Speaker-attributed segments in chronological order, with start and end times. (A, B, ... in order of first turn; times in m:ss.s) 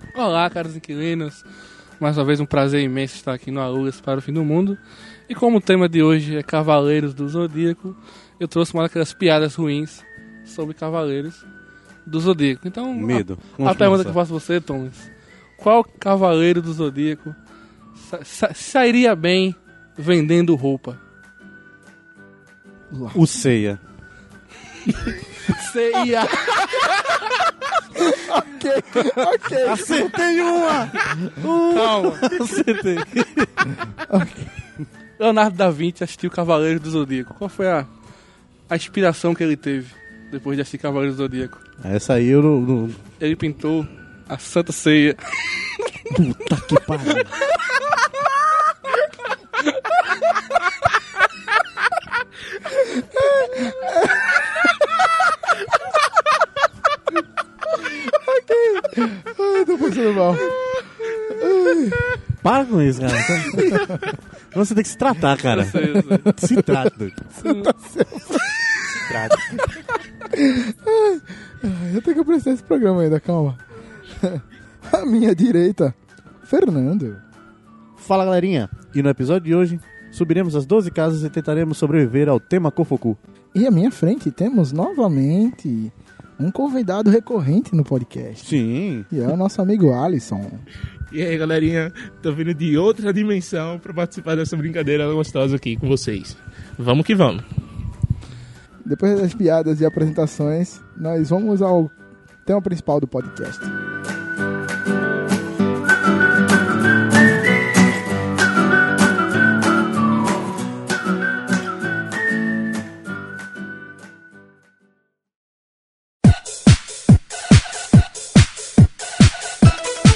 0:00.1-0:01.4 A
0:02.0-0:11.4 A
0:12.0-0:17.4 A
0:12.9-0:14.2 B
0:18.0-0:21.0 A
0:22.9-0:23.2 C
0:23.1-0:23.8 B
0:25.4-0:27.2 A
0:27.9-0:30.2 C
0:29.5-0:33.7 B
0:31.7-0:32.3 A
0:34.1-0:34.5 C
0:35.2-0:37.9 A
0:38.7-0:41.6 A
0:41.8-0:43.0 B
0:43.2-0:45.7 A
0:46.1-0:47.4 B
0:52.7-0:55.1 C
0:57.7-1:02.1 C
1:02.4-1:07.2 B
1:03.5-1:04.0 C
1:05.4-1:06.3 A
1:06.2-1:06.8 C
1:07.4-1:17.2 C
1:07.4-1:07.7 A
1:18.0-1:23.2 B
1:23.5-1:30.6 C
1:28.4-1:29.1 B
1:31.1-1:37.4 D
1:38.8-1:43.7 C